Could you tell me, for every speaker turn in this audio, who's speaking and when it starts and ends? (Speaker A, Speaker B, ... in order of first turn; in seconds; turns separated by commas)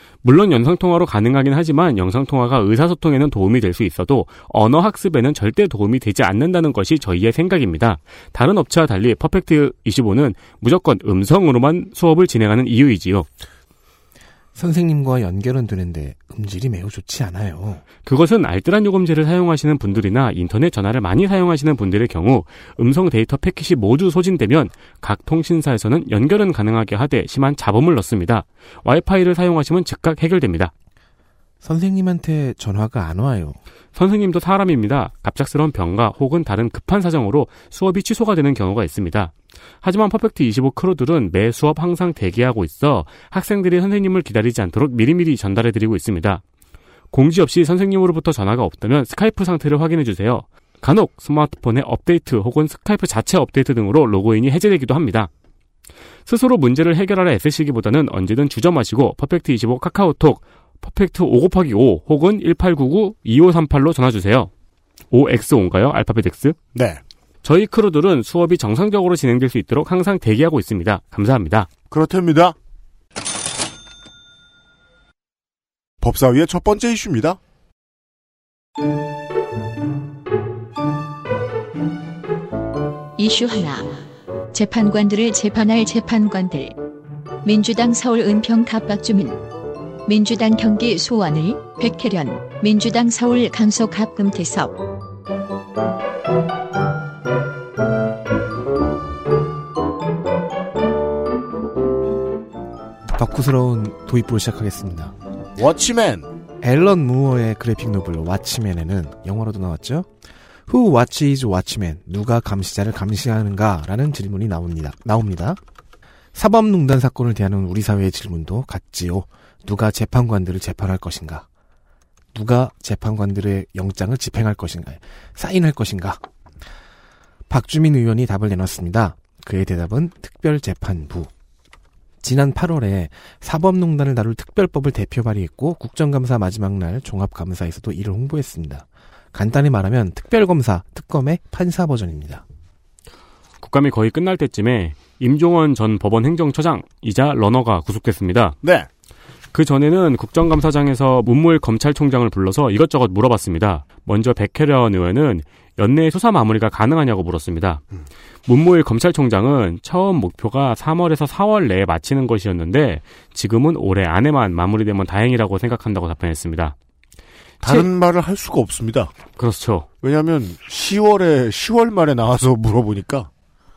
Speaker A: 0.2-13.3, Speaker B: 14.6-17.8, Speaker A: 18.0-30.7, Speaker B: 31.6-33.6, Speaker A: 34.0-46.4, Speaker A: 47.1-55.3, Speaker A: 56.3-64.5, Speaker A: 65.1-66.6, Speaker C: 66.7-67.0, Speaker A: 67.4-71.7, Speaker C: 71.9-72.5, Speaker C: 76.0-77.4, Speaker D: 83.2-84.0, Speaker D: 84.5-86.8, Speaker D: 87.4-89.4, Speaker D: 90.1-94.8, Speaker B: 103.1-105.1, Speaker C: 105.6-106.3, Speaker B: 106.6-110.1, Speaker B: 110.7-115.6, Speaker B: 116.3-121.5, Speaker B: 122.3-126.2, Speaker B: 127.5-131.3, Speaker B: 132.2-142.4, Speaker A: 143.6-148.6, Speaker C: 148.6-148.9, Speaker A: 149.5-157.8, Speaker A: 158.5-166.8, Speaker C: 167.6-169.1, Speaker A: 167.6-167.9, Speaker A: 169.4-169.9, Speaker C: 170.0-173.3